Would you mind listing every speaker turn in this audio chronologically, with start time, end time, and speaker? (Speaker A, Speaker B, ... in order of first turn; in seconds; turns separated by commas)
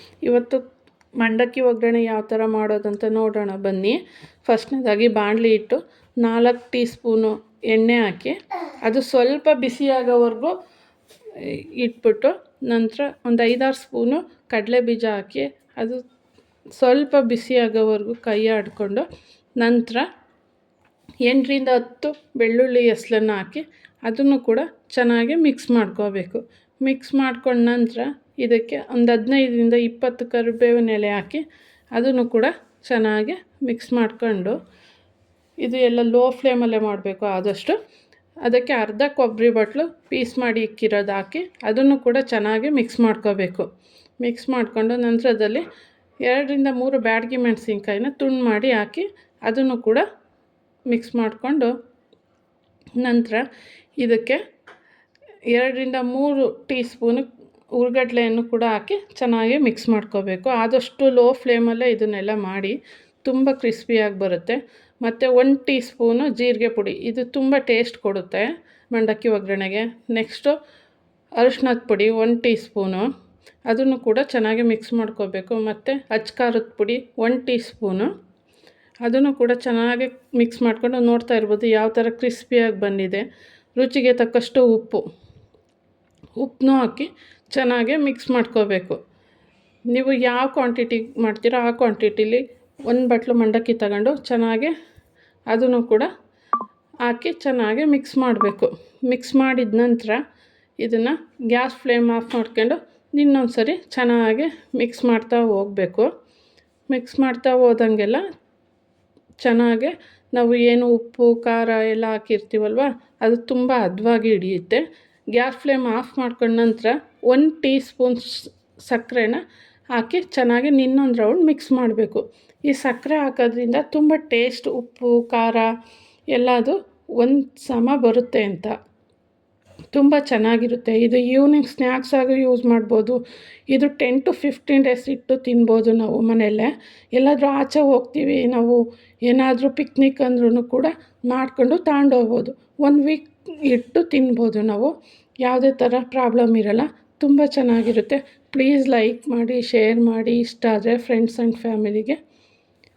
Speaker A: 0.2-0.6, Speaker A: 1.2-10.5, Speaker A: 11.4-16.0, Speaker A: 16.8-19.0, Speaker A: 19.6-20.1, Speaker A: 21.2-31.4, Speaker A: 31.9-34.5, Speaker A: 35.6-37.8, Speaker A: 38.4-43.7, Speaker A: 44.2-45.6, Speaker A: 46.2-50.0, Speaker A: 50.9-51.7, Speaker A: 53.0-53.4, Speaker A: 54.0-54.4, Speaker A: 55.5-70.6, Speaker A: 71.4-73.1, Speaker A: 73.7-78.1, Speaker A: 79.0-83.2, Speaker A: 83.8-85.0, Speaker A: 86.4-89.0, Speaker A: 89.9-94.7, Speaker A: 95.5-96.1, Speaker A: 97.0-100.2, Speaker A: 100.8-106.1, Speaker A: 106.9-108.2, Speaker A: 109.4-119.4, Speaker A: 119.9-125.7, Speaker A: 126.3-128.7, Speaker A: 129.9-152.2